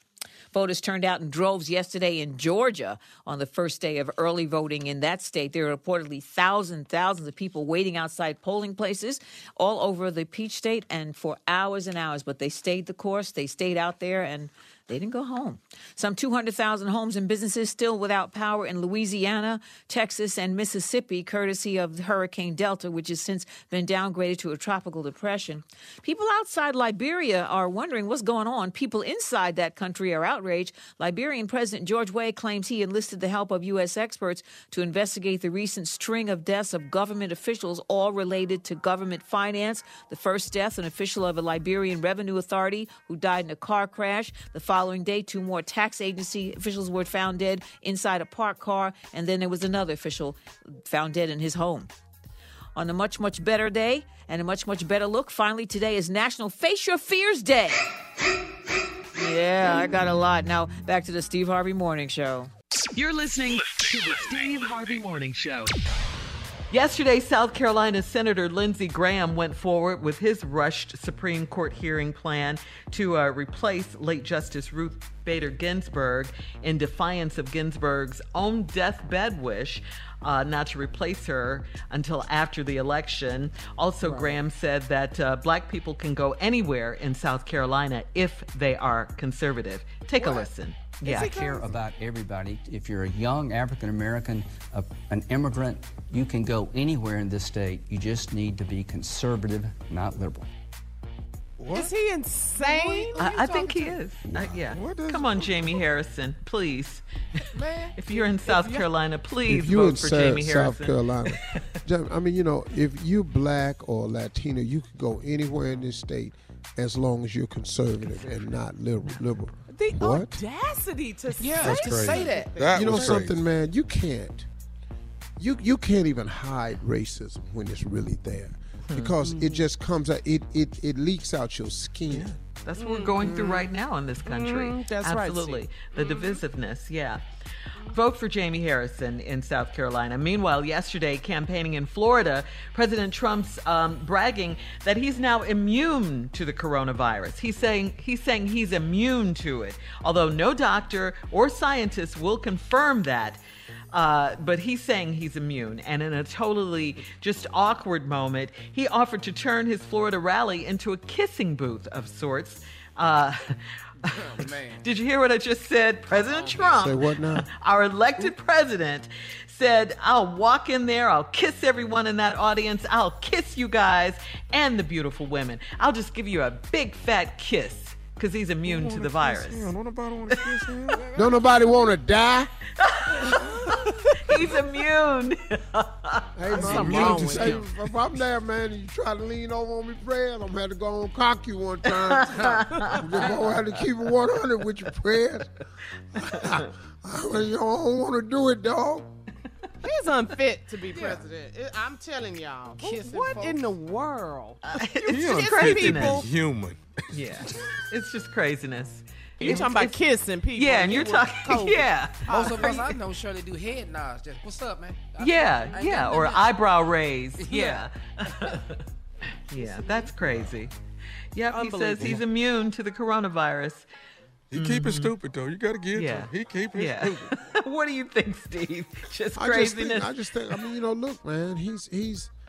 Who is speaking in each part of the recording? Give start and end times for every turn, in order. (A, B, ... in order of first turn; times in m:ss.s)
0:00.5-0:51.9 A
0:52.7-0:57.8 A
0:59.2-1:02.5 A
1:03.0-1:05.7 B
1:06.7-1:31.5 C
1:30.2-1:30.5 D
1:31.0-1:31.7 D
1:31.3-1:40.5 E
1:41.6-1:41.9 F
1:41.7-1:43.2 D
1:42.6-1:44.0 G
1:43.2-1:47.0 C
1:44.3-1:45.5 F
1:47.5-1:47.9 G
1:48.0-1:51.3 C
1:48.1-1:48.9 D
1:49.5-2:00.4 H
1:59.7-2:03.2 D
2:01.4-2:02.5 G
2:01.6-2:03.3 F
2:02.7-2:04.4 H
2:05.4-2:12.3 H
2:08.9-2:09.1 C
2:09.2-2:09.6 D
2:12.1-2:17.2 C
2:12.8-2:13.7 D
2:14.2-2:16.4 D
2:17.8-2:33.4 C
2:33.9-2:43.4 C
2:44.0-2:44.8 G
2:44.1-2:59.7 C
2:46.2-2:46.5 G
2:46.7-2:47.4 H
2:58.6-3:01.0 F
3:00.3-3:01.0 C
3:01.0-3:01.3 G
3:01.1-3:02.5 H
3:02.8-3:06.8 C
3:06.4-3:15.5 H
3:06.6-3:07.4 F
3:06.6-3:07.6 G
3:06.6-3:07.6 D
3:11.8-3:13.4 C
3:16.2-3:19.1 H
3:16.3-3:16.7 C
3:19.8-3:26.3 D
3:20.9-3:21.2 G
3:22.8-3:23.7 G
3:24.6-3:26.2 C
3:25.1-3:27.6 F
3:27.1-3:32.9 C
3:29.4-3:32.8 D
3:29.4-3:29.7 G
3:32.3-3:36.6 G
3:35.2-3:38.8 C
3:37.4-3:37.8 G
3:39.5-3:40.7 C
3:41.3-3:43.8 C
3:41.5-3:42.2 D
3:44.5-3:47.4 F
3:44.5-3:45.1 C
3:45.9-3:50.1 C
3:49.4-3:52.3 H